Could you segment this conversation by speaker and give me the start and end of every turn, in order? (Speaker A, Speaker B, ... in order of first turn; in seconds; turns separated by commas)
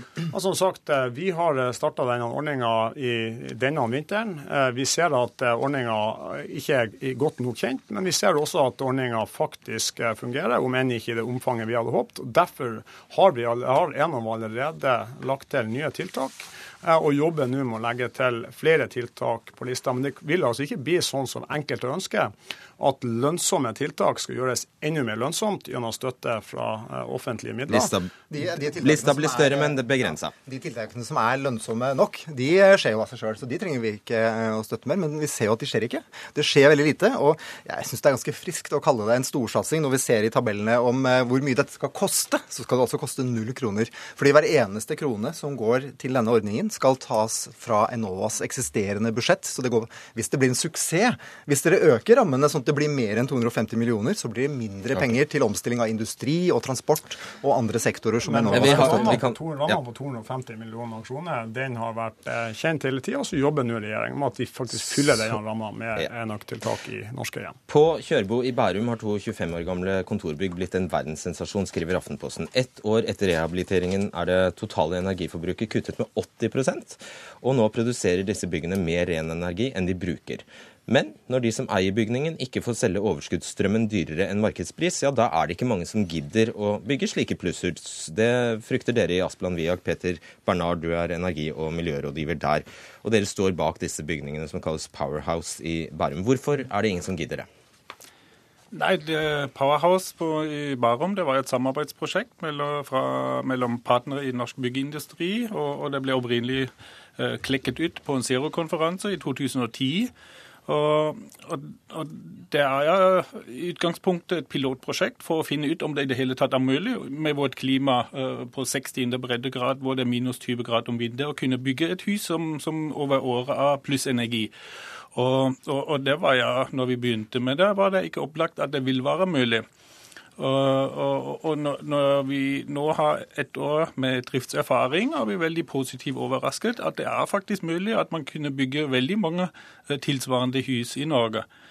Speaker A: 0.3-27.9, Speaker B: 27.7-30.3, Speaker C: 28.3-59.2, Speaker A: 58.3-67.6, Speaker B: 58.5-59.8, Speaker B: 64.9-65.3, Speaker B: 67.7-97.5, Speaker D: 98.7-110.1, Speaker D: 110.7-124.5, Speaker D: 125.2-129.7, Speaker D: 130.4-141.5